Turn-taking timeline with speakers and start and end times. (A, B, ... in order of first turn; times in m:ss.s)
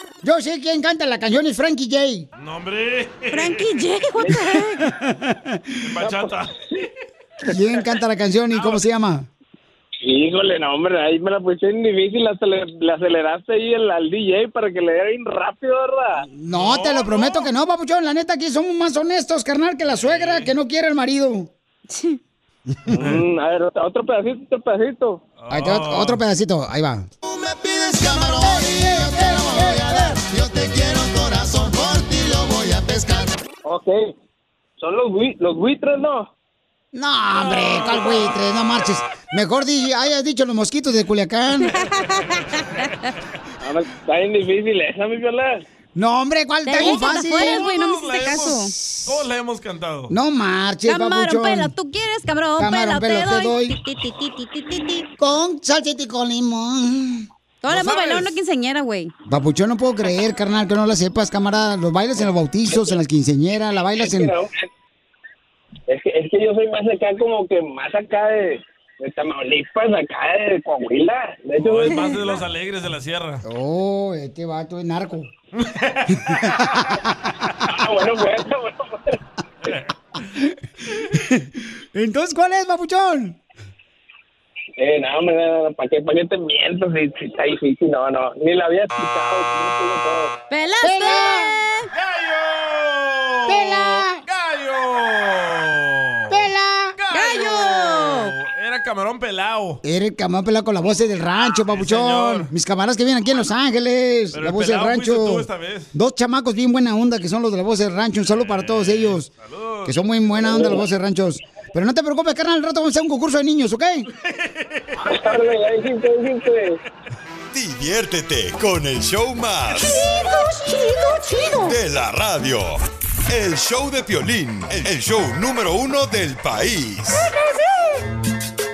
0:00.2-0:02.3 A
0:02.4-0:03.7 B
0:03.3-0:04.8 C
0:04.9-0:05.6 A
0:05.8-0:06.9 B
0:07.5-0:09.3 A
0:08.5-0:08.8 B
0:10.0-0:16.2 D
0:16.3-0:21.5 A
0:16.5-0:17.5 B
0:19.9-0:20.5 B
0:21.9-0:22.2 C
0:22.9-0:23.2 B
0:23.1-0:25.2 D
0:25.4-0:26.2 B
0:25.5-0:27.0 A
0:27.2-0:33.3 E
0:28.1-0:30.2 A
0:33.6-0:34.1 D
0:34.8-0:36.3 D
0:36.9-0:41.7 A
0:41.8-0:42.2 C
0:43.6-0:45.6 D
0:45.9-0:47.7 A
0:46.6-0:48.7 C
0:46.8-0:50.1 B
0:48.3-0:49.2 A
0:50.1-0:51.7 A
0:50.8-0:55.0 C
0:52.6-0:53.8 A
0:55.2-0:57.2 A
0:57.6-0:59.1 C
0:57.7-0:58.4 B
0:59.3-1:04.3 A
1:04.0-1:04.5 D
1:05.9-1:12.0 D
1:11.6-1:13.4 B
1:11.9-1:12.2 C
1:13.4-1:15.3 A
1:15.6-1:16.6 B
1:16.2-1:17.3 A
1:17.8-1:19.0 D
1:19.6-1:19.9 B
1:21.0-1:23.4 A
1:24.8-1:30.3 D
1:30.5-1:31.9 C
1:30.8-1:31.5 A
1:31.9-1:39.8 B
1:33.5-1:34.2 A
1:36.3-1:36.9 A
1:37.1-1:38.3 C
1:39.8-1:49.3 A
1:41.5-1:42.5 B
1:44.3-1:45.9 B
1:48.3-1:50.0 B
1:49.8-1:54.1 A
1:54.2-1:54.9 B
1:55.0-1:56.8 D
1:57.5-2:00.0 F
1:59.9-2:00.3 B
2:01.6-2:07.3 F